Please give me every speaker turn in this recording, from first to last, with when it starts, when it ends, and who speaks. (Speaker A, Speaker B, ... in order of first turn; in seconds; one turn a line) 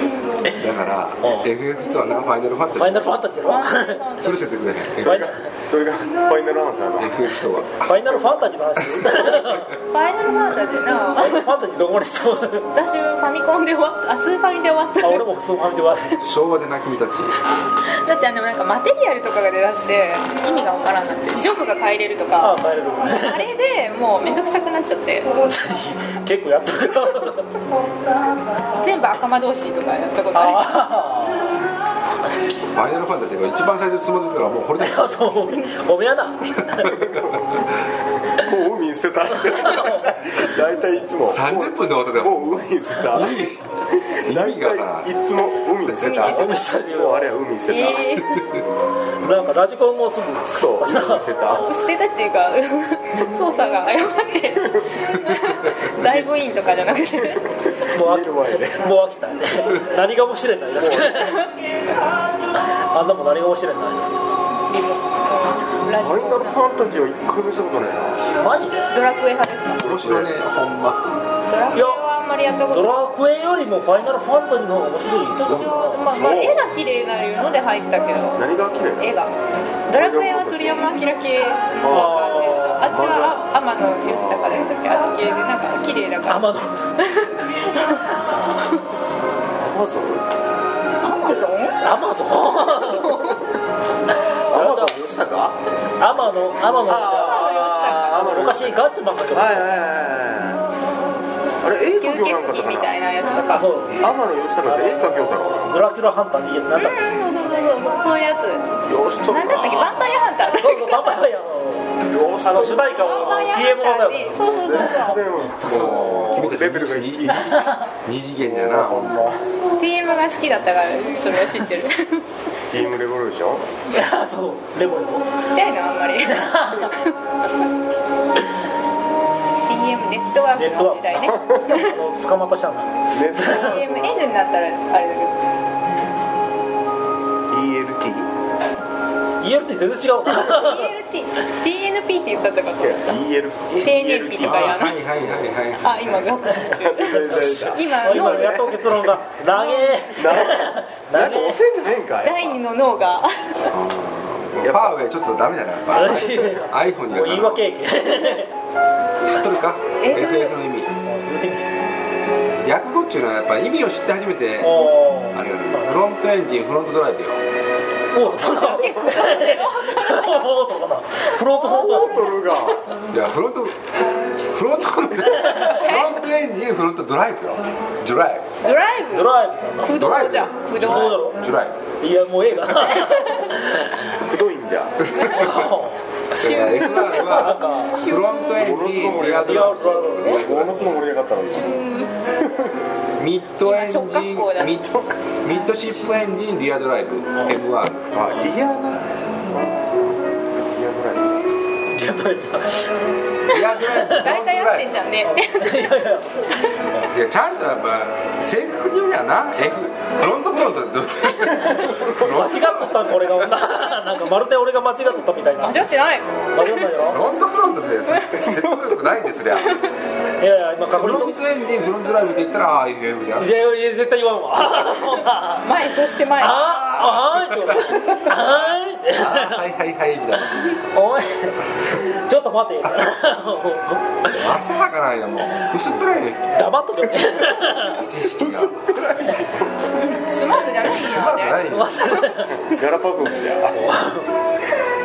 Speaker A: 0.6-3.2
Speaker B: 1.2-1.5
Speaker B: 2.7-4.0
Speaker C: 3.4-4.5
Speaker A: 4.2-5.3
Speaker B: 5.0-5.4
Speaker D: 5.0-7.2
Speaker A: 7.0-8.2
Speaker B: 7.8-9.7
Speaker A: 8.9-9.7
Speaker C: 9.9-11.5
Speaker B: 11.2-12.7
Speaker C: 12.7-15.3
Speaker B: 15.0-16.2
Speaker A: 16.2-17.4
Speaker C: 17.8-25.3
Speaker B: 22.4-23.5
Speaker B: 25.4-27.4
Speaker C: 28.8-30.8
Speaker B: 30.3-31.6
Speaker A: 32.7-35.6
Speaker B: 34.8-36.9
Speaker A: 36.7-37.6
Speaker D: 36.9-37.6
Speaker D: 38.3-48.1
Speaker B: 39.7-40.0
Speaker A: 41.2-45.1
Speaker A: 45.8-46.5
Speaker C: 46.0-46.4
Speaker B: 46.2-47.4
Speaker C: 47.7-48.4
Speaker A: 48.2-48.6
Speaker B: 49.2-51.6
Speaker D: 50.5-51.7
Speaker C: 51.5-57.4
Speaker D: 57.6-58.8
Speaker B: 57.9-61.5
Speaker D: 60.8-61.3
Speaker B: 62.5-64.3
Speaker C: 64.7-66.6
Speaker D: 66.0-68.2
Speaker B: 68.4-68.8
Speaker C: 68.9-70.0
Speaker A: 69.8-71.2
Speaker D: 70.0-70.3
Speaker C: 71.5-73.0
Speaker B: 71.7-72.0
Speaker B: 72.7-76.0
Speaker C: 75.4-78.4
Speaker A: 75.5-75.8
Speaker D: 76.1-76.7
Speaker D: 78.3-79.2
Speaker C: 79.0-79.3
Speaker C: 79.9-88.0
Speaker D: 79.9-81.0
Speaker D: 81.8-82.2
Speaker B: 81.8-83.0
Speaker D: 82.9-84.6
Speaker B: 86.3-86.8
Speaker D: 89.6-90.3
Speaker C: 91.0-91.8
Speaker B: 91.8-93.4
Speaker C: 92.7-93.4
Speaker D: 94.5-95.6
Speaker B: 94.5-95.0
Speaker B: 96.0-99.8
Speaker D: 96.8-98.8
Speaker C: 97.2-98.2
Speaker D: 99.3-100.6
Speaker D: 101.6-102.9
Speaker C: 102.0-103.7
Speaker B: 103.5-104.1
Speaker D: 104.0-105.8
Speaker B: 104.6-107.0
Speaker C: 106.8-108.7
Speaker D: 108.9-110.0
Speaker C: 109.2-111.0
Speaker B: 110.5-116.5
Speaker D: 112.1-113.5
Speaker C: 112.8-115.2
Speaker D: 114.4-117.7
Speaker A: 115.6-119.3
Speaker D: 118.4-119.4
Speaker C: 119.8-122.2
Speaker D: 122.7-123.6
Speaker B: 123.9-125.3
Speaker C: 125.4-127.1
Speaker B: 126.3-126.9
Speaker C: 129.7-131.9
Speaker B: 130.5-133.8
Speaker D: 133.1-134.3
Speaker C: 133.4-135.4
Speaker D: 137.5-138.3
Speaker B: 139.4-140.9
Speaker C: 140.2-143.0
Speaker D: 142.8-145.4
Speaker C: 143.7-145.0
Speaker A: 144.4-146.6
Speaker C: 145.8-148.8
Speaker D: 146.8-148.7
Speaker B: 147.3-151.6
Speaker D: 149.7-152.6
Speaker C: 152.2-153.6
Speaker A: 153.7-157.7
Speaker D: 154.6-154.9
Speaker B: 155.9-158.5
Speaker A: 159.2-160.9
Speaker C: 160.0-160.6
Speaker B: 161.0-161.7
Speaker A: 162.6-167.4
Speaker B: 164.6-166.0
Speaker B: 168.1-172.2
Speaker C: 168.3-170.5
Speaker C: 171.5-172.4
Speaker D: 171.6-172.8
Speaker A: 173.1-173.9
Speaker A: 174.5-178.5
Speaker C: 175.6-176.1
Speaker C: 178.6-181.3
Speaker B: 179.1-179.9
Speaker A: 179.9-181.8
Speaker B: 180.8-181.4
Speaker B: 182.0-183.9
Speaker D: 184.2-185.3
Speaker A: 185.0-185.7
Speaker B: 185.3-186.0
Speaker C: 186.3-188.3
Speaker A: 186.3-191.0
Speaker B: 187.0-187.9
Speaker D: 188.5-191.8
Speaker B: 189.2-190.5
Speaker C: 191.5-192.1
Speaker D: 192.4-192.7
Speaker A: 193.2-194.9
Speaker C: 193.6-194.8
Speaker D: 194.9-195.2
Speaker A: 195.4-198.2
Speaker D: 198.1-201.4
Speaker B: 201.9-202.9
Speaker A: 203.5-205.0
Speaker C: 204.1-205.9
Speaker B: 205.2-207.1
Speaker A: 207.1-213.5
Speaker B: 212.1-215.9
Speaker C: 215.6-217.1
Speaker A: 216.4-219.8
Speaker B: 216.5-217.2
Speaker C: 218.1-218.4
Speaker C: 219.6-219.9
Speaker B: 220.4-221.4
Speaker A: 220.9-223.6
Speaker B: 223.4-225.6
Speaker C: 224.9-226.8
Speaker B: 226.4-229.6
Speaker A: 226.8-230.8
Speaker B: 230.9-234.5
Speaker A: 234.2-236.6
Speaker B: 236.5-238.1
Speaker A: 237.2-238.9
Speaker D: 238.4-239.9
Speaker C: 239.9-242.2
Speaker A: 240.8-242.0
Speaker B: 241.7-242.6
Speaker D: 242.5-243.8
Speaker B: 243.7-244.3